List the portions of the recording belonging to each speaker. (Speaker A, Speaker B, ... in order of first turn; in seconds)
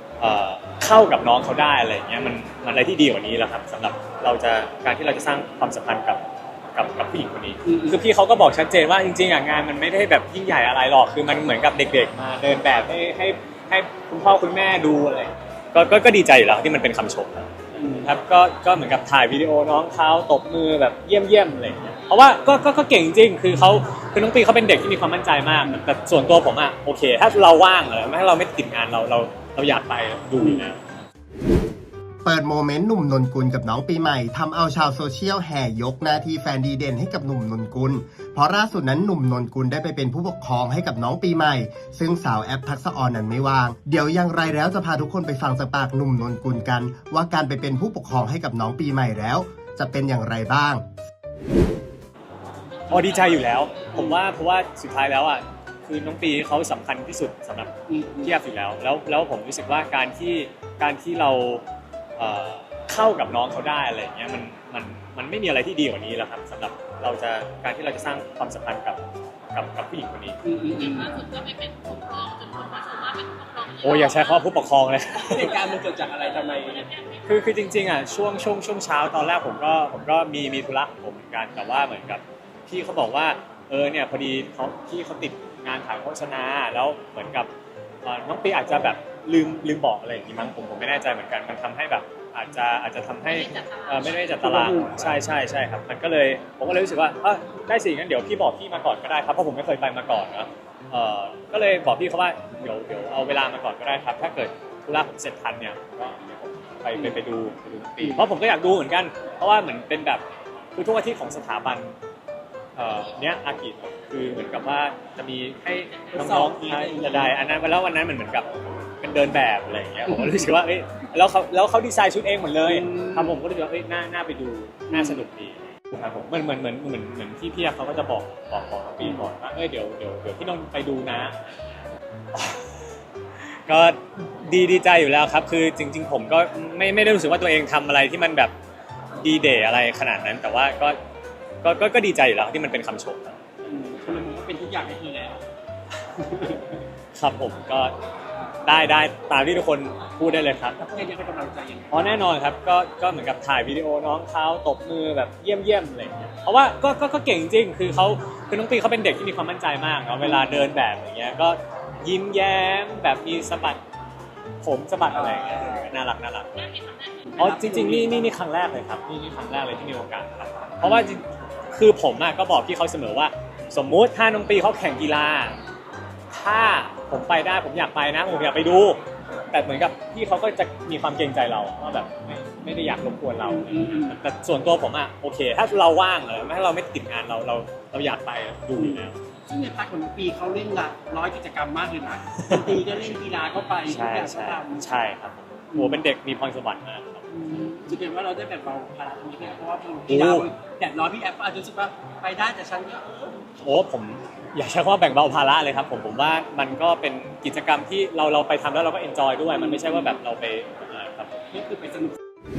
Speaker A: 0.2-6.2, 6.7-30.8, 52.9-61.6, 62.2-69.0, 69.5-70.4, 73.8-75.6, 77.2-87.5, 88.0-110.2, 110.8-112.0, 112.8-118.5, 119.0-131.3, 132.3-132.8, 133.7-138.5, 139.2-141.0, 141.6-143.4, 147.2-147.9, 148.6-150.8, 151.9-163.8, 164.6-166.8, 167.4-175.6, 176.3-189.2, 192.3-192.8, 193.8-197.2, 200.1-200.5, 203.6-211.4
Speaker B: 7.7-7.9, 17.8-18.1, 57.9-58.3, 70.4-71.3, 75.2-76.9, 94.3-95.1, 116.1-117.3, 122.6-123.4, 124.9-125.2, 143.7-145.4, 150.8-152.1, 165.2-165.8, 167.2-168.2, 183.4-184.1, 188.8-194.8, 197.3-203.3, 211.5-212.2
Speaker C: 32.2-50.8
Speaker D: 70.9-74.5, 93.5-94.3